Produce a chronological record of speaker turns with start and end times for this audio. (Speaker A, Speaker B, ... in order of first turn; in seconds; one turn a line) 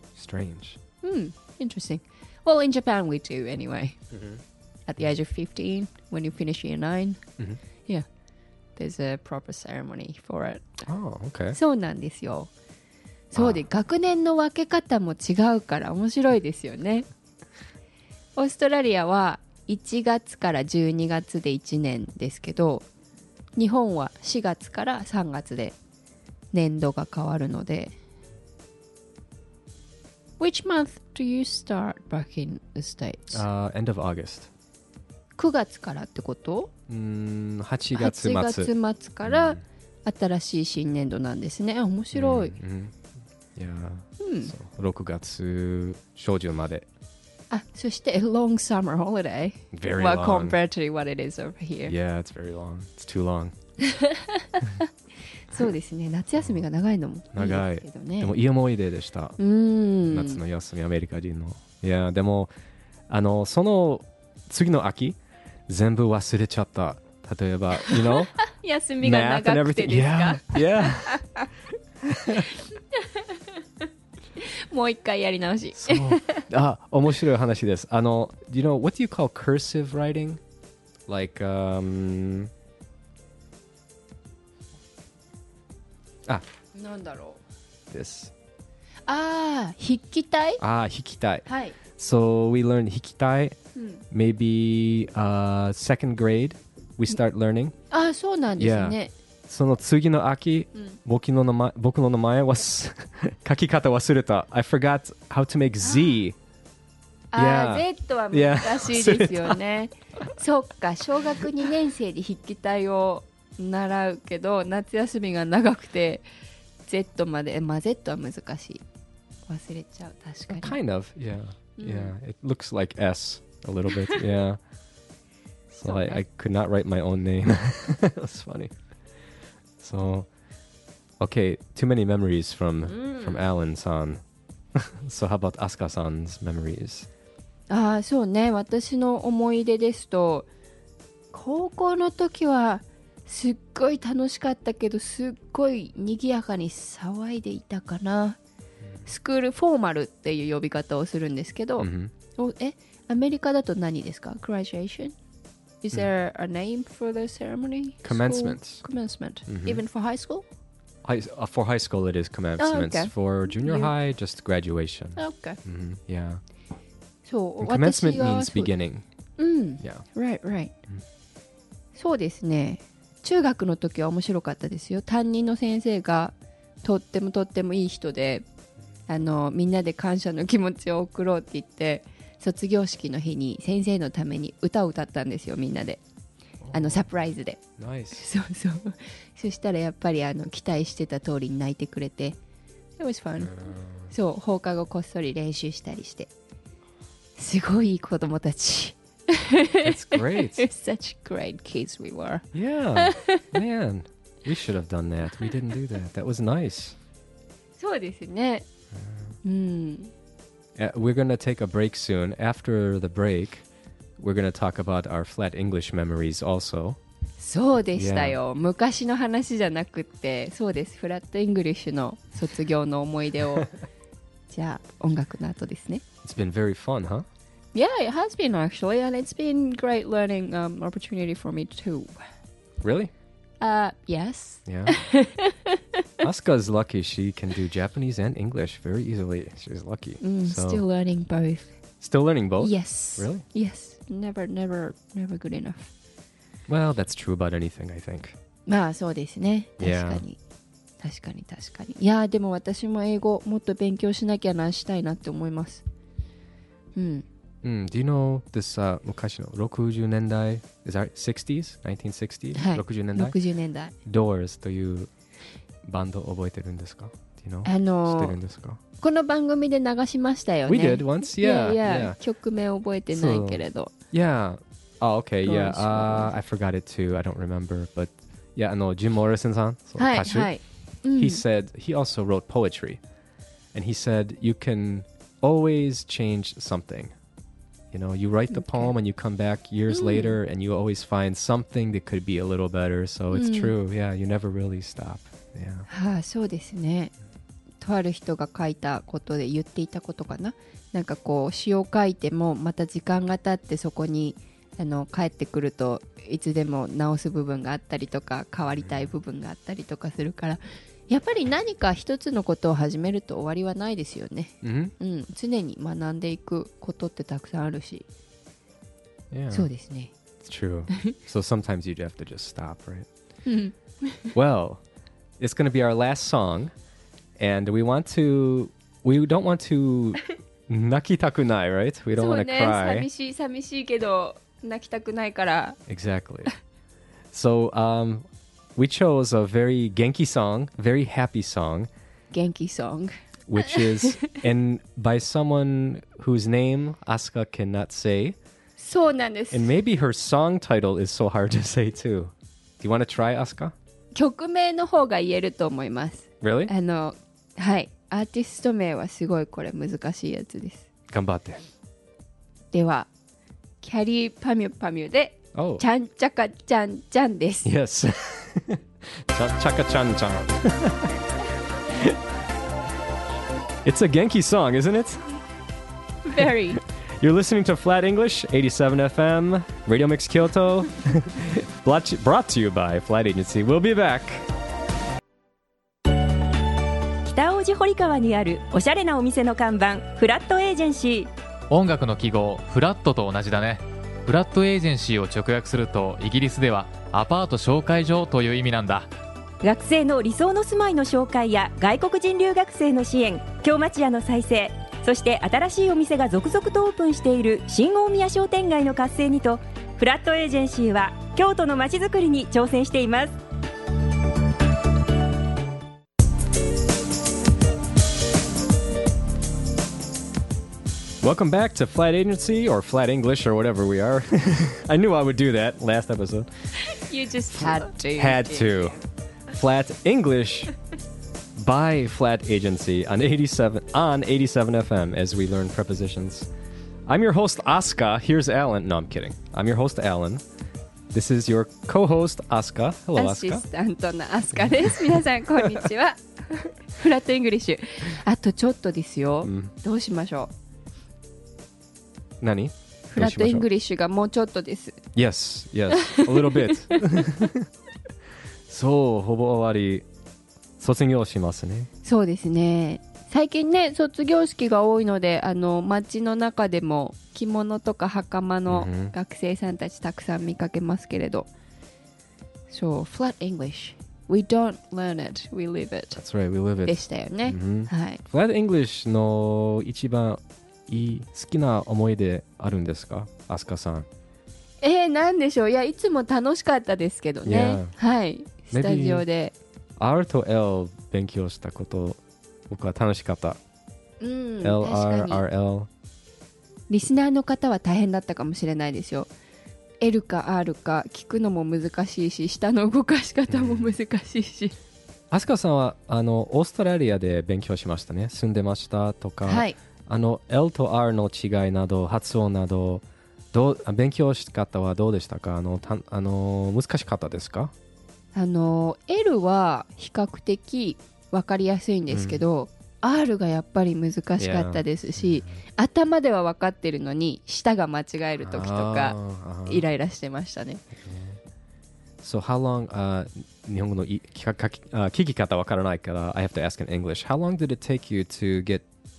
Speaker A: 0.1-0.8
Speaker B: 1.0-4.0
Speaker A: 4.1-4.4
Speaker B: 4.9-7.2
Speaker B: 8.8-10.6
Speaker A: 10.9-11.6
Speaker B: 11.5-12.5
Speaker B: 13.3-17.1
Speaker A: 13.3-13.6
Speaker B: 18.4-22.9
Speaker B: 23.6-25.8
Speaker B: 26.5-28.0
Speaker B: 30.4-33.4
Speaker A: 33.3-34.5
Speaker B: 35.4-36.7
Speaker A: 36.9-38.7
Speaker B: 37.9-42.6
Speaker A: 39.2-39.6
Speaker A: 42.1-43.0
Speaker A: 43.6-46.9
Speaker B: 44.2-44.5
Speaker B: 47.5-51.9
Speaker A: 49.7-50.6
Speaker A: 51.9-53.5
Speaker B: 53.8-54.9
Speaker B: 55.5-58.4
Speaker A: 57.3-59.4
Speaker B: 59.4-60.4
Speaker A: 60.0-62.5
Speaker A: 63.1-68.4
Speaker B: 67.8-71.5
Speaker A: 69.0-71.2
Speaker A: 72.1-72.5
Speaker B: 72.3-73.5
Speaker B: 74.4-76.4
Speaker A: 75.7-80.4
Speaker A: 81.1-82.5
Speaker B: 86.7-87.4
Speaker A: 87.9-88.3
Speaker B: 89.1-90.6
Speaker A: 90.6-91.5
Speaker B: 91.5-91.8
Speaker A: 92.0-93.6
Speaker B: 93.8-94.0
Speaker A: 94.1-97.8
Speaker B: 97.9-99.1
Speaker A: 98.6-106.4
Speaker B: 105.8-106.2
Speaker B: 107.3-116.2
Speaker A: 107.3-109.6
Speaker B: 116.9-118.8
Speaker B: 119.5-120.8
Speaker A: 120.5-124.6
Speaker B: 121.8-122.1
Speaker A: 125.8-128.7
Speaker B: 125.8-126.2
Speaker A: 129.8-130.3
Speaker A: 131.2-134.2
Speaker B: 132.9-133.4
Speaker A: 134.8-137.1
Speaker B: 137.7-140.5
Speaker B: 141.3-148.4
Speaker B: 149.1-155.1
Speaker A: 151.8-152.1
Speaker B: 155.8-160.4
Speaker A: 158.0-158.8
Speaker A: 159.5-159.8
Speaker A: 161.1-166.4
Speaker B: 162.6-163.9
Speaker B: 165.2-165.6
Speaker B: 167.2-168.7
Speaker A: 167.6-169.1
Speaker B: 169.4-170.7
Speaker B: 171.9-178.4
Speaker B: 179.1-186.0
Speaker A: 186.6-187.2
Speaker B: 186.7-187.6
Speaker A: 187.8-188.3
Speaker B: 188.1-192.4
Speaker B: 193.0-193.5
Speaker A: 193.4-194.1
Speaker B: 194.1-196.3
Speaker B: 197.4-202.5
Speaker A: 199.8-200.7
Speaker A: 202.5-207.0
Speaker B: 203.0-203.5
Speaker B: 207.8-208.7
Speaker A: 208.9-209.3
Speaker B: 209.4-210.1
Speaker A: 210.8-213.7
Speaker A: 214.2-217.0
Speaker B: 217.4-223.7
Speaker A: 218.0-218.4
Speaker B: 224.5-226.0
Speaker A: 226.2-227.3
Speaker B: 227.7-232.2
Speaker A: 232.8-233.1
Speaker B: 233.6-235.8
Speaker A: 234.7-235.0
Speaker A: 236.2-240.8
Speaker B: 240.2-241.8
Speaker A: 242.0-243.4
Speaker B: 242.6-245.9
Speaker A: 246.7-248.4
Speaker B: 248.7-250.4
Speaker A: 249.8-250.3
Speaker B: 251.0-255.8
Speaker B: 256.9-257.2
Speaker A: 257.6-263.4
Speaker B: 262.6-263.9
Speaker A: 264.1-265.1
Speaker A: 265.8-268.8
Speaker B: 267.6-268.4
Speaker B: 269.0-273.9
Speaker A: 270.7-272.2
Speaker A: 273.1-280.5
Speaker B: 275.4-276.4
Speaker B: 280.0-281.4
Speaker A: 281.1-283.0
Speaker A: 283.7-287.1
Speaker A: 287.9-295.9
Speaker B: 288.5-288.9
Speaker B: 289.9-290.4
Speaker B: 293.3-293.7
Speaker B: 295.9-297.1
Speaker B: 297.8-318.1
Speaker A: 314.6-314.9
Speaker A: 319.3-319.7
Speaker B: 319.5-320.1
Speaker A: 320.4-323.1
Speaker B: 323.5-324.3
Speaker A: 324.3-324.8
Speaker A: 325.4-326.7
Speaker A: 327.4-333.1
Speaker B: 332.2-335.8
Speaker A: 335.9-336.5
Speaker A: 337.3-341.9
Speaker B: 342.3-343.1
Speaker A: 343.5-348.4
Speaker B: 343.7-344.2
Speaker B: 348.8-349.7
Speaker A: 349.5-353.7
Speaker B: 354.1-360.9
Speaker A: 356.4-356.7
Speaker A: 361.1-361.6
Speaker B: 362.7-363.1
Speaker B: 363.8-367.7
Speaker A: 365.6-365.9
Speaker A: 367.6-371.1
Speaker A: 373.9-375.3
Speaker B: 376.3-376.8
Speaker A: 376.4-384.4
Speaker C: 387.3-391.3
Speaker D: 391.7-399.1
Speaker C: 399.6-413.4
Speaker A: 421.2-426.5
Speaker B: 426.8-429.0
Speaker A: 427.5-429.0
Speaker A: 429.5-430.7
Speaker A: 431.6-436.5
Speaker A: 437.1-440.4
Speaker A: 441.1-443.6
Speaker B: 443.2-450.5
Speaker A: 444.6-445.7
Speaker A: 449.4-449.7
Speaker A: 452.4-453.7
Speaker B: 453.1-455.0
Speaker A: 455.1-457.7
Speaker B: 455.9-457.3
Speaker A: 458.7-460.1
Speaker A: 460.8-461.9
Speaker B: 462.0-471.5
Speaker A: 468.7-469.1
Speaker B: 472.7-476.2
Speaker A: 476.2-484.1
Speaker B: 476.9-478.2
Speaker B: 484.8-489.5
Speaker A: 487.4-487.9
Speaker A: 488.7-489.3
Speaker A: 490.0-493.6
Speaker B: 494.2-495.4
Speaker A: 494.6-495.9
Speaker B: 496.9-499.3
Speaker B: 500.0-504.8
Speaker A: 503.5-503.9
Speaker A: 505.3-517.7
Speaker B: 509.4-509.8
Speaker B: 518.3-530.8
Speaker A: 522.1-522.4
Speaker A: 524.4-525.6
Speaker A: 528.4-529.9
Speaker A: 531.0-531.4
Speaker A: 532.2-538.9